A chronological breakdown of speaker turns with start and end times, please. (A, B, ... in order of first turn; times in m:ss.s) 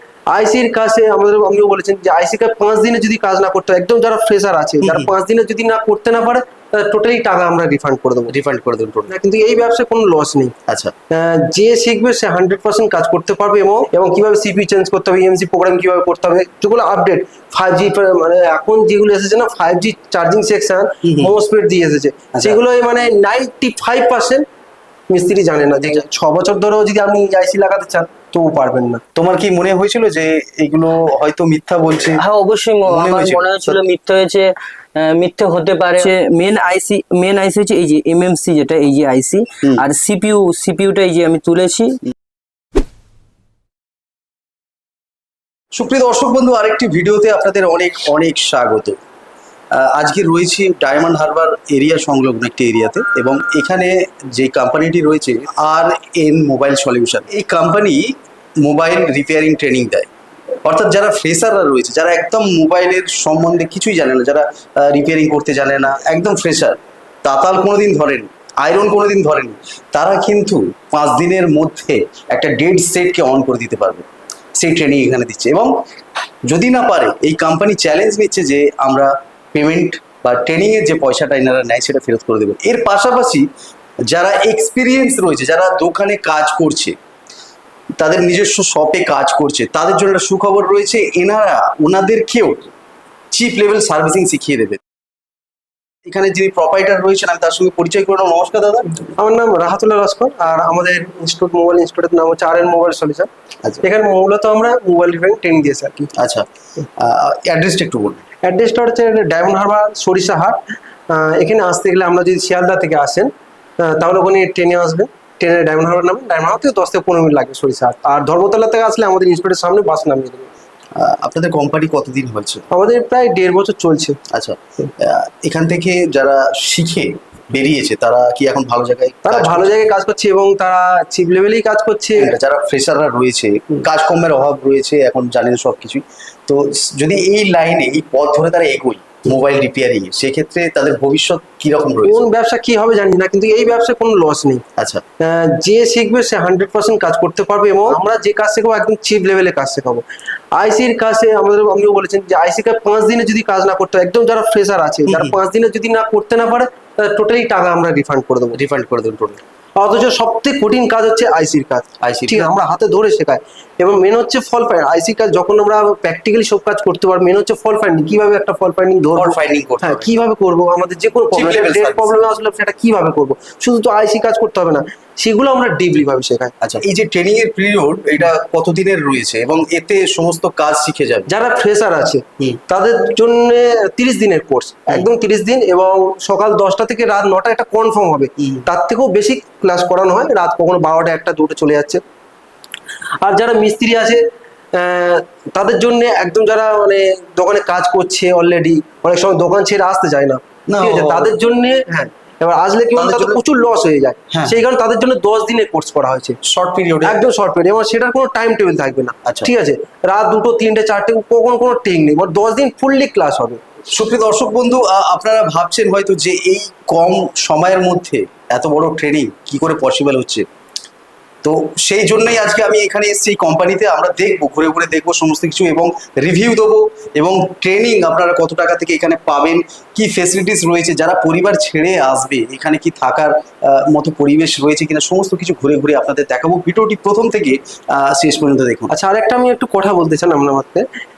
0:00.3-0:08.3 A
0:04.8-0:05.1 B
0:08.3-0:09.1 B
0:09.1-0:10.5 A
0:10.7-0:10.9 B
0:11.1-0:24.4 A
0:21.0-0:21.3 B
0:22.3-0:22.6 B
0:25.1-0:29.0 A
0:29.2-0:32.2 B
0:32.2-0:42.0 C
0:32.9-0:33.8 B
0:45.7-0:49.0 B
0:49.7-1:00.1 B
1:00.6-1:14.0 B
1:14.6-1:15.7 B
1:16.5-1:23.5 B
1:24.1-1:27.0 B
1:28.0-1:32.7 B
1:33.3-1:34.8 B
1:36.1-1:39.0 B
1:39.2-1:43.3 A
1:43.8-1:46.1 A
1:46.2-1:46.5 B
1:47.0-1:48.2 B
1:48.4-2:00.5 A
2:01.0-2:02.6 B
2:02.7-2:04.2 A
2:04.3-2:09.8 B
2:09.2-2:12.3 A
2:12.2-2:22.2 B
2:22.0-2:24.6 A
2:24.8-2:25.0 B
2:25.2-2:30.0 A
2:30.6-2:38.6 A
2:35.1-2:35.3 B
2:38.5-2:39.4 B
2:39.8-2:56.5 A
2:42.0-2:42.5 B
2:49.2-2:50.1 B
2:51.3-2:52.2 B
2:56.6-3:01.3 B
3:01.3-3:12.0 A
3:13.2-3:14.2 A
3:14.8-3:26.4 A
3:20.7-3:21.3 B
3:23.0-3:23.4 B
3:24.3-3:24.6 B
3:26.4-3:27.2 B
3:27.0-3:33.6 A
3:29.2-3:29.5 B
3:33.9-3:40.5 B
3:41.4-3:58.9 B
3:58.9-4:00.9 A